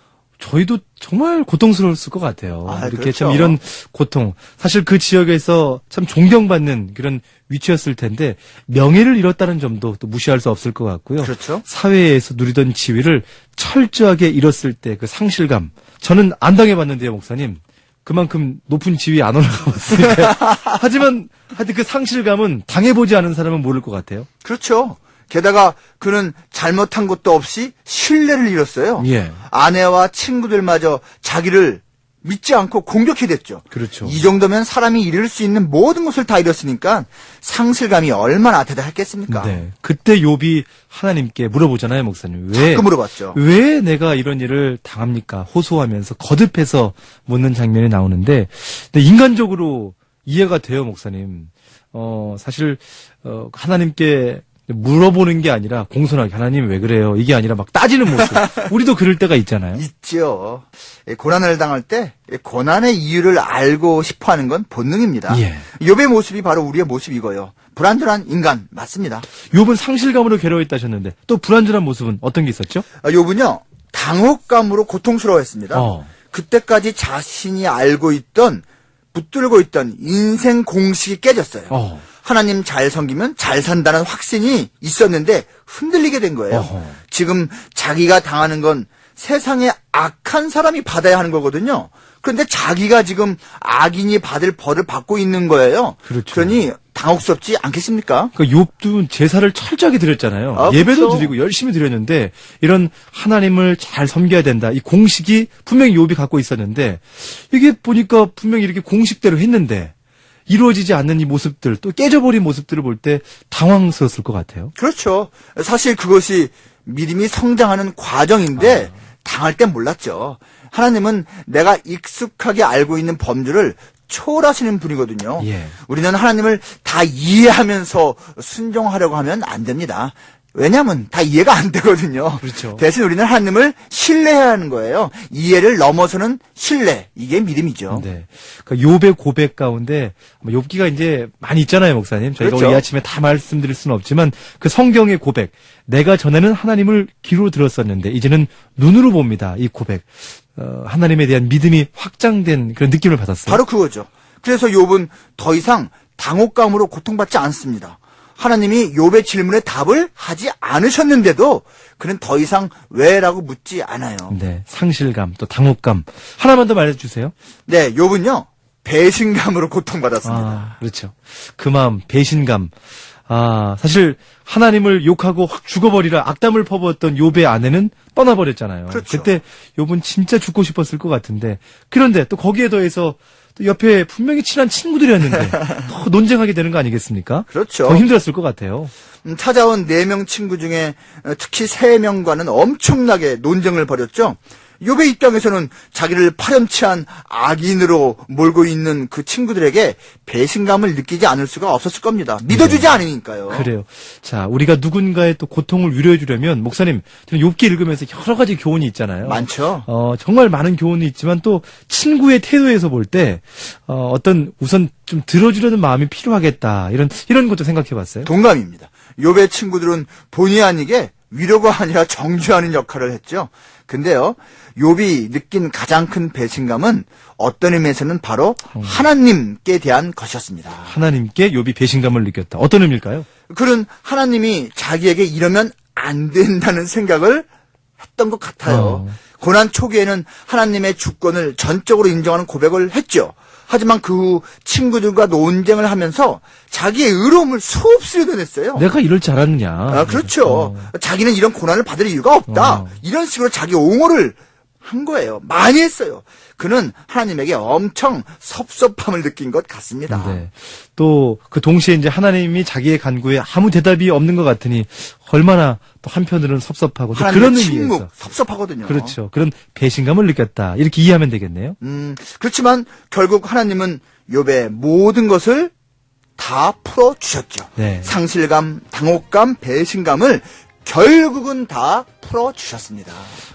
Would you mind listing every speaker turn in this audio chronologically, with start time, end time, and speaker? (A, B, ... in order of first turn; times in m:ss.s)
0:00.4-0:24.3 A
0:02.6-0:03.6 B
0:11.2-0:11.6 B
0:20.0-0:20.8 B
0:24.4-0:39.6 B
0:29.0-0:29.4 A
0:33.7-0:34.2 A
0:39.3-0:59.8 A
0:42.5-0:43.4 B
0:58.2-0:58.6 B
0:59.8-1:09.3 B
1:05.3-1:05.7 A
1:09.4-1:12.8 A
1:13.0-1:38.3 B
1:15.7-1:16.1 A
1:21.7-1:22.0 A
1:26.5-1:27.0 A
1:36.1-1:36.6 A
1:38.4-1:49.9 A
1:40.6-1:41.3 B
1:50.5-1:54.7 A
1:54.8-2:18.0 B
1:58.6-1:59.0 A
2:05.4-2:05.8 A
2:12.4-2:12.8 A
2:17.9-2:33.6 A
2:22.4-2:22.8 B
2:33.5-2:44.4 B
2:44.3-2:47.3 A
2:47.7-2:50.7 B
2:50.2-2:52.7 A
2:53.3-3:08.9 A
2:58.9-2:59.3 B
3:05.4-3:05.7 B
3:07.5-3:08.0 B
3:09.2-3:23.7 B
3:22.5-3:38.3 A
3:29.2-3:29.9 B
3:38.3-3:50.9 B
3:50.9-3:53.3 A
3:53.5-3:57.5 B
3:58.1-4:08.9 B
3:58.6-3:59.2 A
4:08.8-4:10.9 A
4:09.9-4:20.4 B
4:12.5-4:13.0 A
4:20.1-4:28.1 A
4:27.1-4:29.2 B
4:28.9-4:31.8 A
4:31.8-4:35.7 B
4:36.4-4:43.3 B
4:37.8-4:38.2 A